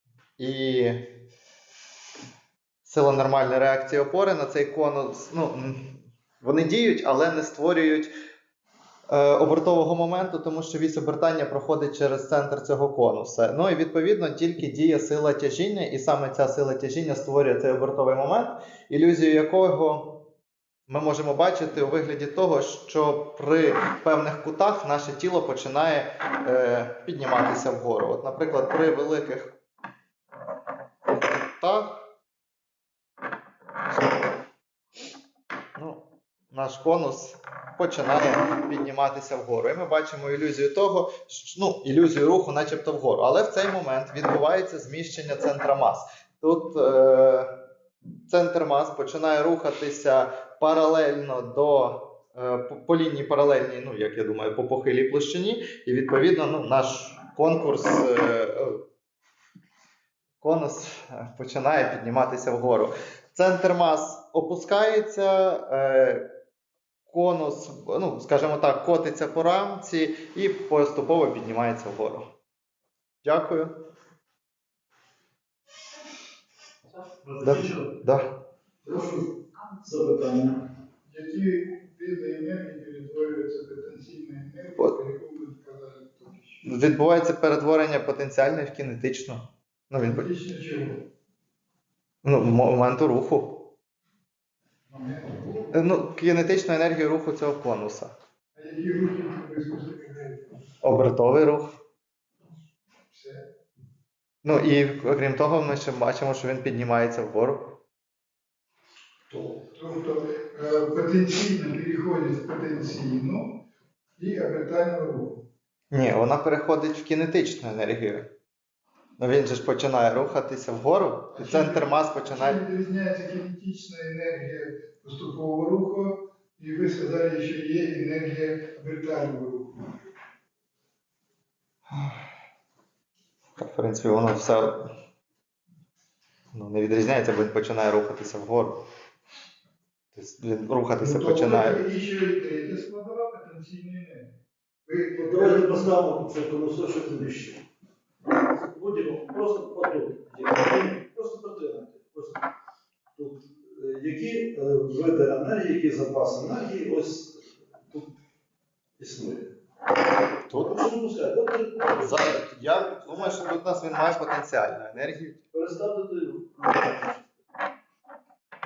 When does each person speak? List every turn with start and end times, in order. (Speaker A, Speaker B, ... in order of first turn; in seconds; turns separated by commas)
Speaker A: 0.4-1.1, Speaker A: 2.8-8.1, Speaker A: 9.1-20.3, Speaker A: 20.9-29.5, Speaker A: 31.6-32.0, Speaker A: 35.8-47.5, Speaker A: 48.3-58.8, Speaker A: 60.4-66.2, Speaker A: 67.1-72.3, Speaker A: 73.2-73.7, Speaker A: 77.4-78.3, Speaker B: 78.8-80.6, Speaker C: 81.1-86.6, Speaker A: 86.6-90.3, Speaker C: 90.0-91.0, Speaker A: 92.2-93.7, Speaker C: 94.9-95.7, Speaker A: 95.7-98.1, Speaker C: 98.5-100.5, Speaker A: 100.8-101.7, Speaker C: 103.1-103.4, Speaker A: 104.4-107.8, Speaker C: 109.6-113.6, Speaker C: 114.2-115.4, Speaker A: 115.9-118.3, Speaker A: 119.2-122.6, Speaker C: 121.3-129.9, Speaker A: 131.9-132.2, Speaker A: 133.6-134.9, Speaker A: 136.5-138.8, Speaker A: 140.1-141.9, Speaker C: 141.0-144.3, Speaker C: 144.9-146.0, Speaker B: 145.2-147.6, Speaker B: 148.5-152.4, Speaker B: 153.2-158.1, Speaker B: 159.0-159.5, Speaker A: 160.5-160.8, Speaker B: 160.5-163.5, Speaker A: 162.0-165.4, Speaker B: 165.5-167.3